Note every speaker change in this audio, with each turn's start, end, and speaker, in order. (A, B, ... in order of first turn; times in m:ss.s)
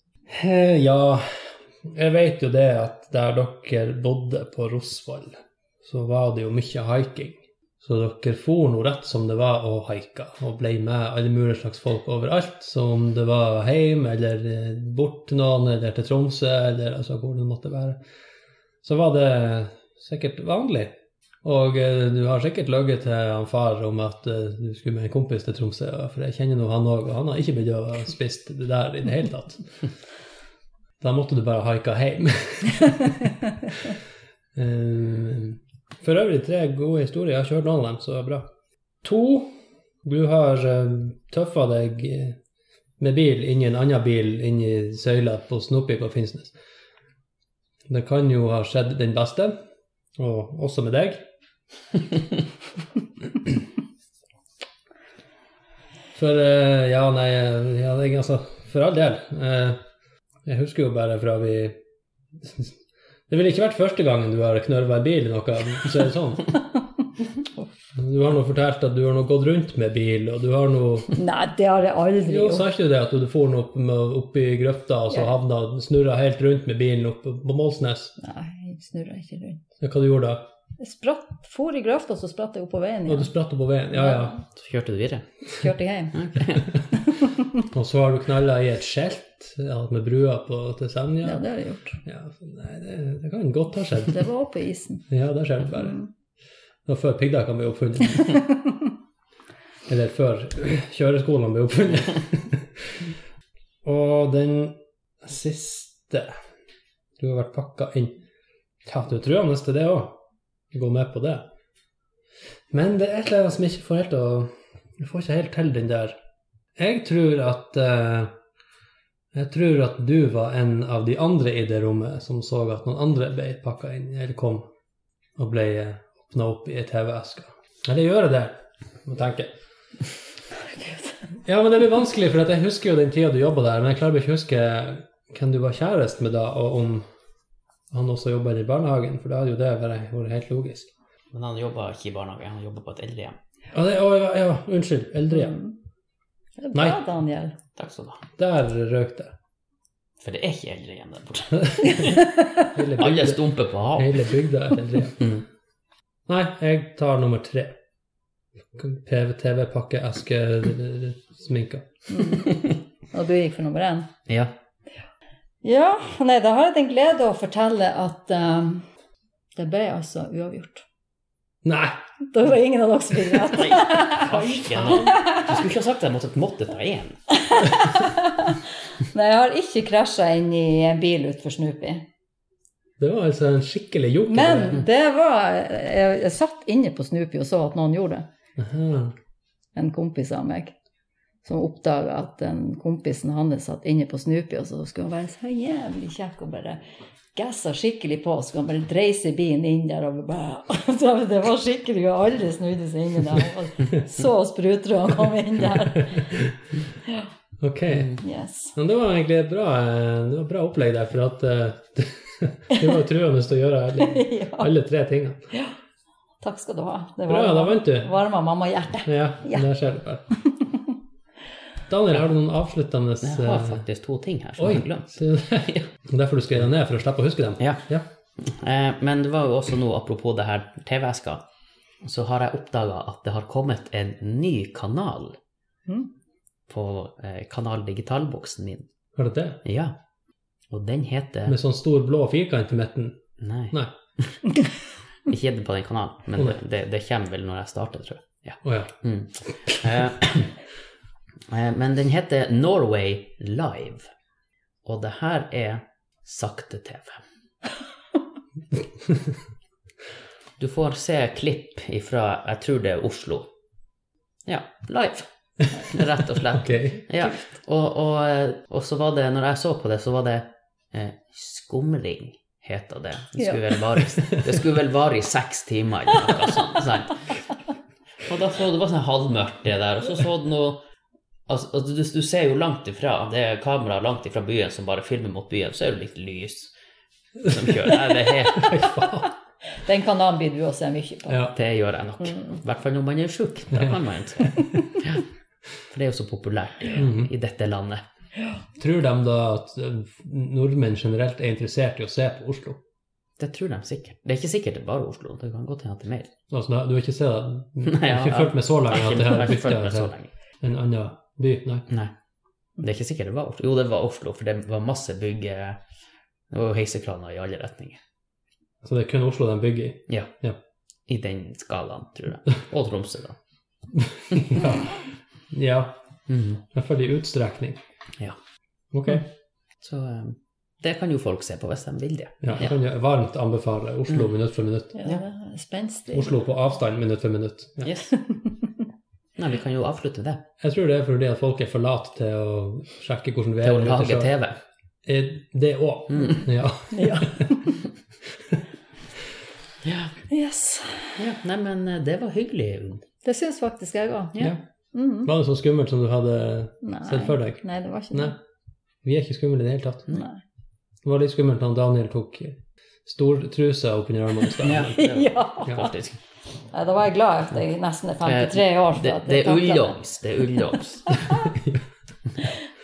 0:00.3-0:18.0 A
0:18.8-0:29.8 A
0:31.0-0:33.9 A
0:34.6-0:38.5 A
0:39.0-0:39.5 A
0:40.0-0:42.4 A
0:43.0-0:46.5 A
0:47.9-0:49.6 A
0:50.2-0:51.2 A
0:56.2-0:59.8 A
1:00.5-1:01.8 A
1:02.4-1:02.7 A
1:03.3-1:06.6 A
1:08.0-1:11.2 A
1:11.1-1:12.7 B
1:12.3-1:18.1 A
1:18.2-1:19.6 B
1:19.8-1:20.4 A
1:20.8-1:23.3 B
1:23.1-1:24.4 A
1:23.9-1:24.4 B
1:24.5-1:25.3 C
1:25.6-1:26.3 B
1:26.1-1:26.7 C
1:27.6-1:31.4 A
1:31.2-1:32.0 B
1:32.0-1:34.2 A
1:34.1-1:35.0 B
1:35.1-1:36.0 A
1:35.8-1:36.1 B
1:36.9-1:38.4 A
1:39.9-1:43.1 A
1:43.8-1:46.4 A
1:47.2-1:48.2 A
1:48.9-1:50.2 A
1:50.7-1:51.5 A
1:52.7-1:56.2 A
1:56.8-1:58.3 A
1:59.3-2:04.7 A
2:05.4-2:09.5 A
2:11.4-2:17.1 A
2:17.9-2:20.9 A
2:21.3-2:23.4 C
2:23.7-2:25.6 A
2:25.3-2:25.7 B
2:26.6-2:27.6 B
2:26.7-2:27.0 A
2:27.8-2:28.2 C
2:28.4-2:29.3 A
2:30.2-2:32.2 C
2:31.6-2:35.3 A
2:33.0-2:34.3 C
2:35.2-2:35.4 C
2:36.3-2:37.8 A
2:38.8-2:42.4 A
2:42.1-2:42.6 B
2:43.1-2:44.1 B
2:44.3-2:44.5 C
2:45.6-2:48.9 B
2:49.6-2:50.8 B
2:51.6-2:52.0 A
2:52.3-2:55.5 B
2:53.5-2:57.2 C
2:57.3-3:02.0 B
3:03.0-3:04.8 A
3:04.3-3:08.3 B
3:08.6-3:09.1 A
3:09.8-3:10.7 B
3:11.4-3:16.8 B
3:17.4-3:26.4 B
3:27.6-3:28.2 A
3:28.2-3:28.8 B
3:28.8-3:35.4 A
3:34.0-3:34.7 B
3:36.4-3:39.6 B
3:37.3-3:38.2 A
3:39.1-3:40.2 A
3:41.9-3:43.8 A
3:43.2-3:45.8 C
3:44.6-3:48.0 A
3:48.4-3:51.4 C
3:52.0-3:55.4 C
3:56.7-3:58.9 C
3:59.2-3:59.6 A
3:59.6-4:00.0 C
4:00.7-4:01.6 C
4:01.5-4:03.2 A
4:03.4-4:04.4 C
4:05.3-4:10.6 C
4:08.6-4:08.9 A
4:11.5-4:14.1 C
4:14.8-4:17.2 C
4:20.6-4:23.5 C
4:24.5-4:37.2 C
4:26.5-4:27.3 A
4:38.2-4:40.8 C
4:41.5-4:46.7 C
4:47.4-4:48.9 C
4:48.5-4:49.3 A
4:49.8-4:51.4 B
4:51.3-4:51.6 A
4:51.6-4:55.2 C
4:53.8-4:54.9 A
4:55.9-4:58.0 C
4:57.0-4:57.3 A
4:58.8-5:02.8 A
5:03.4-5:06.3 C
5:06.5-5:11.9 A
5:07.8-5:10.3 C
5:12.8-5:15.8 C
5:16.5-5:18.0 C
5:18.8-5:20.6 A
5:21.1-5:23.4 C
5:24.0-5:25.0 A
5:24.3-5:24.6 C
5:25.5-5:26.0 A
5:26.3-5:26.6 C
5:26.7-5:27.8 A
5:28.9-5:29.3 A
5:29.8-5:32.5 C
5:32.4-5:35.0 A
5:35.0-5:36.3 B
5:36.1-5:38.0 A
5:37.8-5:38.1 C
5:38.2-5:38.5 B
5:39.4-5:40.4 C
5:40.6-5:44.3 A
5:43.6-5:44.6 C
5:45.0-5:47.5 A
5:46.1-5:46.4 C
5:46.9-5:47.8 B
5:49.8-5:50.1 C
5:50.3-5:51.2 B
5:51.2-5:53.1 C
5:53.2-5:54.4 B
5:54.9-5:55.3 B
5:55.2-5:58.4 A
5:56.8-5:58.3 B
5:59.0-6:00.2 A
6:00.1-6:00.4 B
6:01.0-6:05.1 A
6:04.6-6:06.2 C
6:05.0-6:05.9 B
6:05.7-6:05.9 A
6:06.7-6:10.0 B
6:08.3-6:11.2 C
6:10.7-6:11.5 B